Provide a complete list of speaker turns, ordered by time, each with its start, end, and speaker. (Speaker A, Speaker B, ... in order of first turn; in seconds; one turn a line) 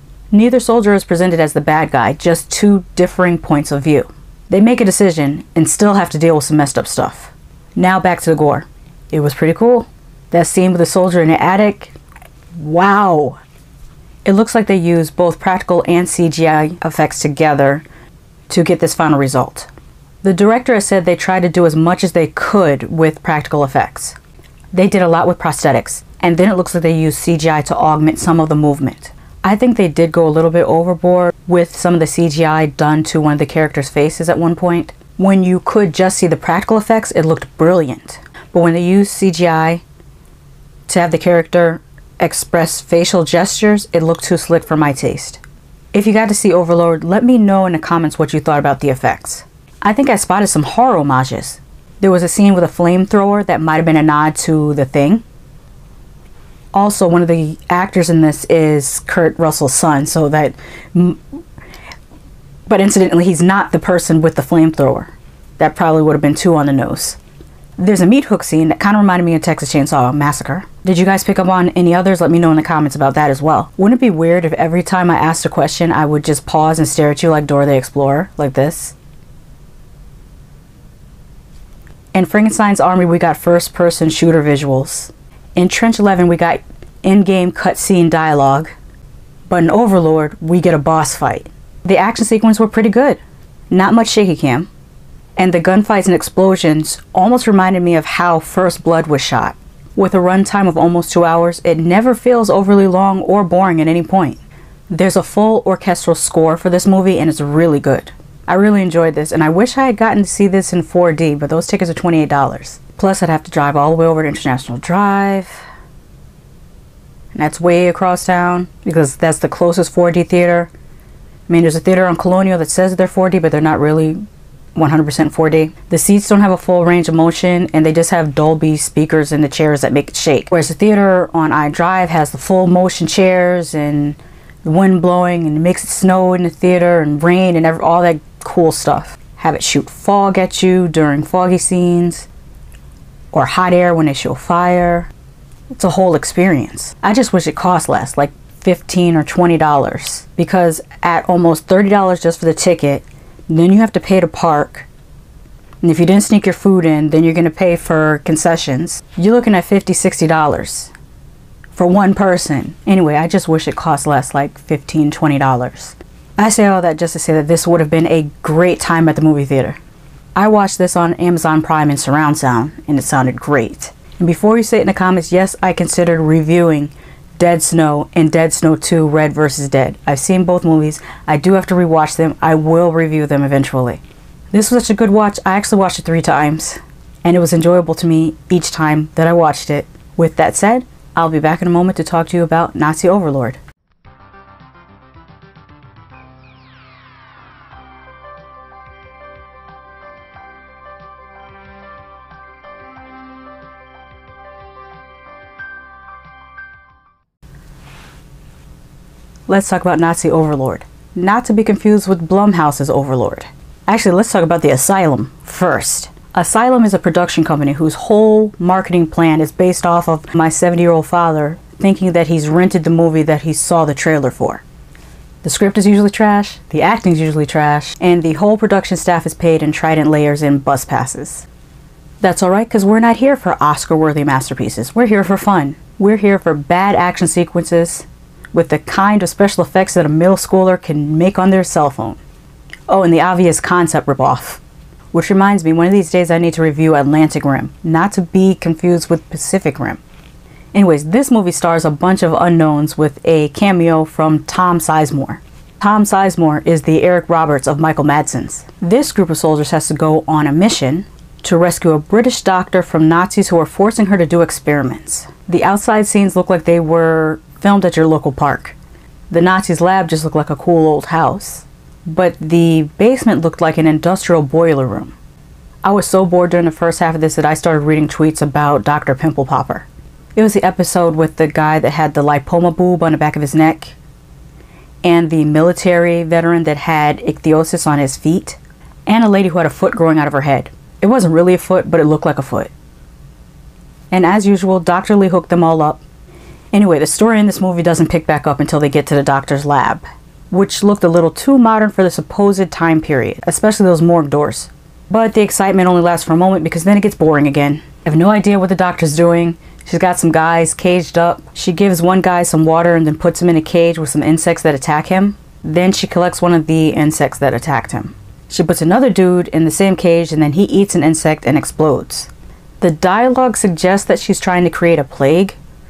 Speaker A: 0.3-11.9
Speaker A: 12.6-13.4
Speaker A: 14.2-17.9
Speaker A: 18.5-19.7
Speaker A: 20.2-24.2
Speaker A: 24.7-39.8
Speaker A: 40.9-45.4
Speaker A: 45.9-55.2
Speaker A: 56.7-61.2
Speaker A: 62.7-67.2
Speaker A: 67.8-79.0
Speaker A: 82.1-88.7
Speaker A: 89.5-94.7
Speaker A: 95.4-115.6
Speaker A: 117.3-120.7
Speaker A: 121.5-124.2
Speaker A: 124.7-142.3
Speaker A: 143.3-145.1
Speaker A: 145.7-154.9
Speaker A: 155.8-160.9
Speaker A: 161.7-169.8
Speaker A: 170.3-193.6
Speaker A: 209.5-224.6
Speaker A: 225.4-231.4
Speaker A: 232.2-242.2
Speaker A: 242.9-244.6
Speaker A: 245.1-250.0
Speaker A: 250.7-268.8
Speaker A: 269.3-275.1
Speaker A: 275.8-284.0
Speaker A: 285.0-292.7
Speaker A: 294.1-296.0
Speaker A: 296.7-325.6